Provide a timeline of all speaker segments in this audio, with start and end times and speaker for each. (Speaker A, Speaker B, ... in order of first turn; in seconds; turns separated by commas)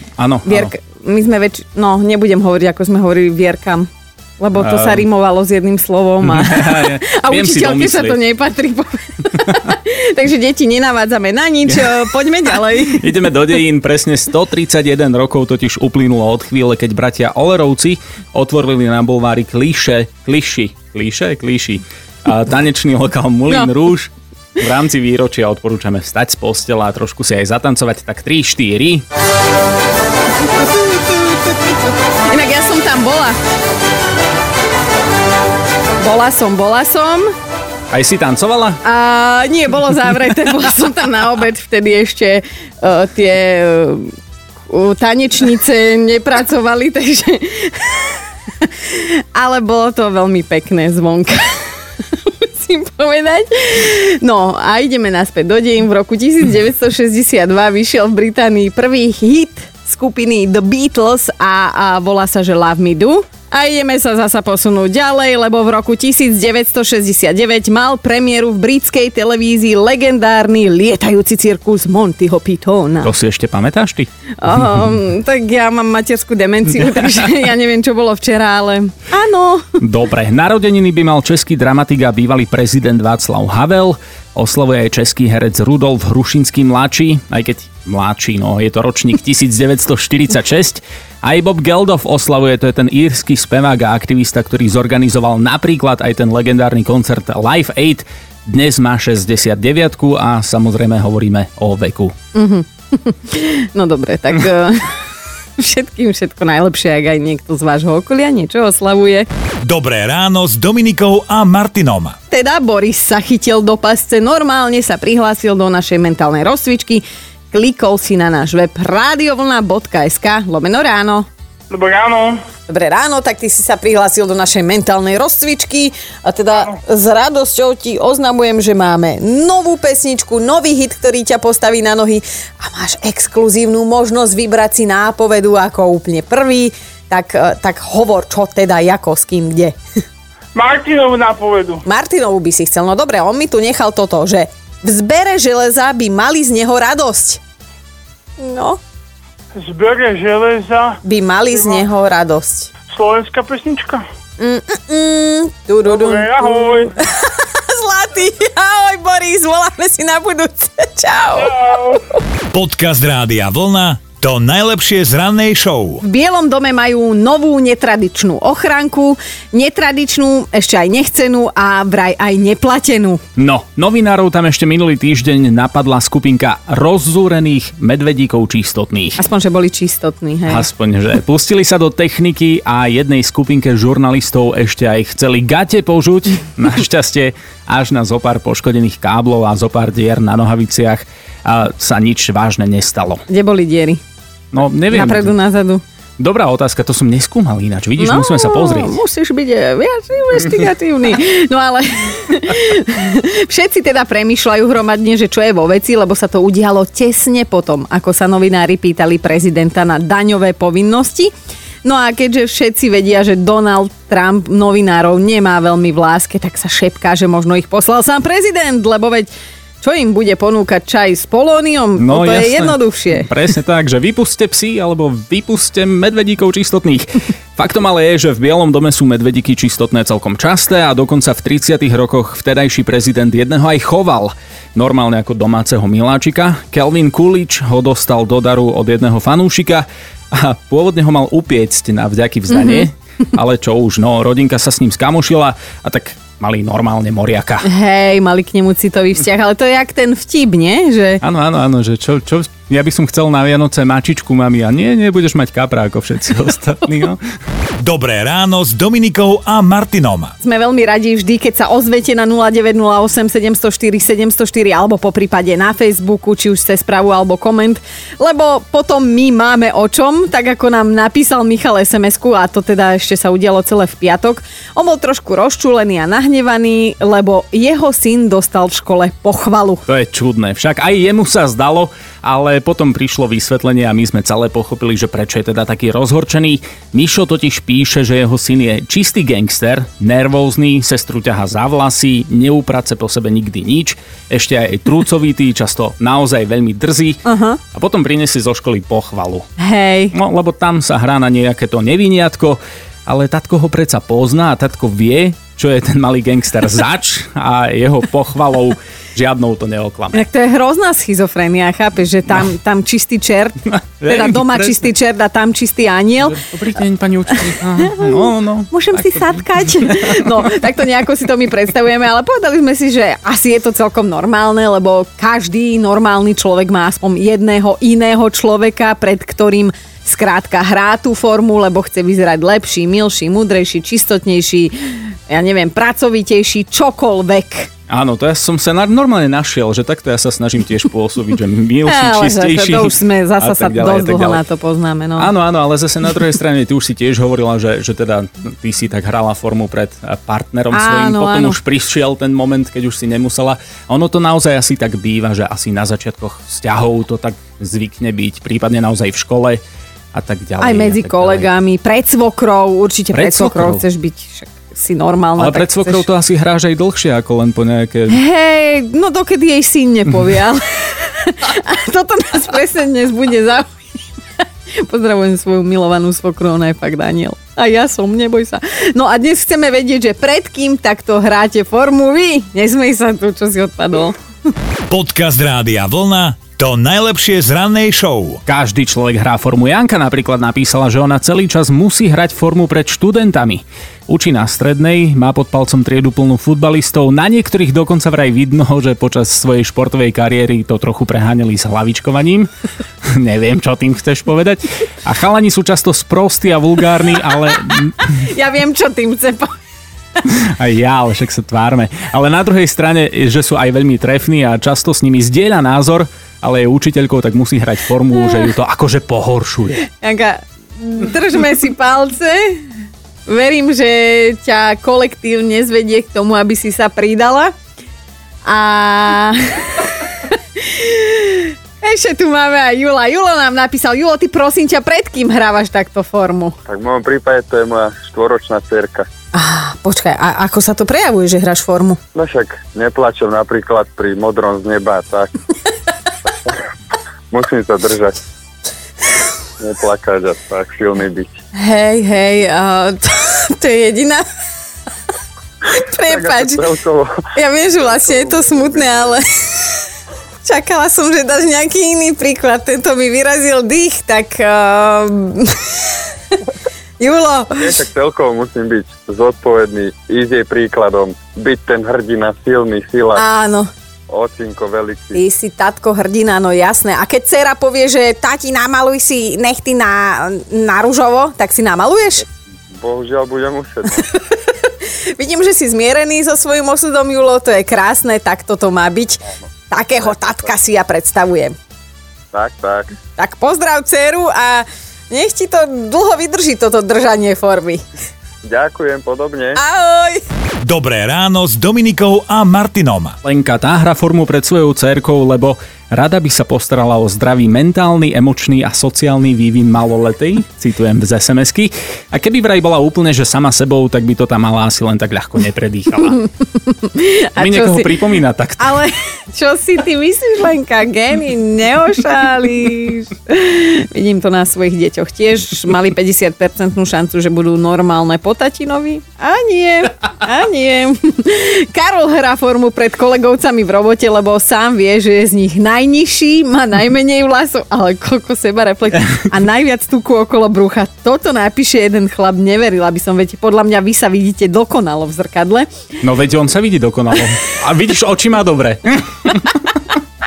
Speaker A: 0.2-0.7, Speaker B: 0.5-3.9, Speaker B: 4.4-13.1, Speaker A: 4.6-5.0, Speaker A: 6.2-8.2, Speaker A: 12.9-29.0, Speaker B: 32.3-33.4, Speaker B: 36.0-37.3, Speaker A: 37.9-38.8, Speaker B: 38.8-44.1, Speaker B: 44.7-73.1, Speaker A: 73.0-74.1, Speaker B: 74.4-79.6, Speaker A: 79.8-102.1, Speaker B: 102.3-105.0, Speaker B: 105.6-109.3, Speaker C: 109.6-112.2, Speaker B: 112.3-121.3, Speaker D: 121.7-122.4, Speaker B: 122.7-139.8, Speaker D: 140.6-141.8, Speaker B: 141.8-147.4, Speaker B: 148.4-148.8, Speaker D: 149.6-151.0, Speaker B: 151.0-152.7, Speaker D: 152.9-154.1, Speaker B: 154.4-162.0, Speaker D: 155.9-156.9, Speaker D: 161.5-162.0, Speaker C: 162.5-166.0, Speaker B: 166.0-173.2, Speaker A: 173.4-179.2, Speaker B: 179.2-180.7, Speaker A: 180.5-193.2, Speaker B: 193.3-194.0, Speaker A: 194.5-195.4, Speaker B: 194.9-195.8, Speaker A: 196.2-199.0, Speaker B: 198.0-211.3, Speaker B: 211.8-219.3, Speaker B: 219.8-223.3, Speaker A: 222.0-247.7, Speaker B: 242.6-242.9, Speaker B: 247.6-251.2, Speaker A: 251.2-257.2, Speaker C: 257.8-260.3, Speaker B: 260.4-279.9, Speaker A: 279.9-299.5, Speaker B: 297.2-297.6, Speaker B: 299.6-300.1, Speaker A: 300.1-310.2, Speaker B: 310.1-316.4, Speaker A: 314.0-314.8, Speaker A: 316.2-320.3, Speaker B: 317.6-337.7, Speaker A: 337.9-344.4, Speaker B: 341.9-345.3, Speaker A: 345.2-359.6, Speaker B: 350.7-351.6, Speaker A: 360.1-361.5, Speaker B: 360.6-366.0, Speaker A: 363.1-363.8, Speaker A: 365.4-368.2, Speaker B: 368.1-373.7, Speaker B: 374.8-384.2, Speaker C: 384.9-388.4, Speaker A: 388.5-402.5, Speaker A: 403.1-408.1, Speaker B: 408.1-409.5, Speaker A: 410.3-419.9, Speaker B: 420.0-422.7, Speaker B: 423.3-427.5, Speaker B: 428.4-436.6, Speaker E: 436.7-439.1, Speaker B: 439.3-442.0, Speaker E: 442.1-445.4, Speaker E: 447.3-448.2, Speaker E: 449.6-451.3, Speaker B: 451.6-454.2, Speaker B: 455.7-456.6, Speaker E: 456.1-457.2, Speaker B: 457.4-459.7, Speaker E: 457.8-459.2, Speaker B: 460.4-466.0, Speaker B: 467.0-467.8, Speaker E: 467.6-473.2, Speaker B: 473.1-473.7, Speaker E: 474.1-475.2, Speaker B: 475.1-482.3, Speaker E: 482.7-484.1, Speaker B: 484.1-491.6, Speaker E: 490.0-490.5, Speaker E: 492.3-492.9, Speaker B: 493.2-497.8, Speaker E: 498.4-499.6, Speaker B: 499.6-500.2, Speaker C: 500.6-503.2, Speaker A: 503.2-516.2, Speaker B: 516.7-518.0, Speaker A: 517.4-518.8, Speaker B: 518.6-545.7, Speaker A: 546.0-549.6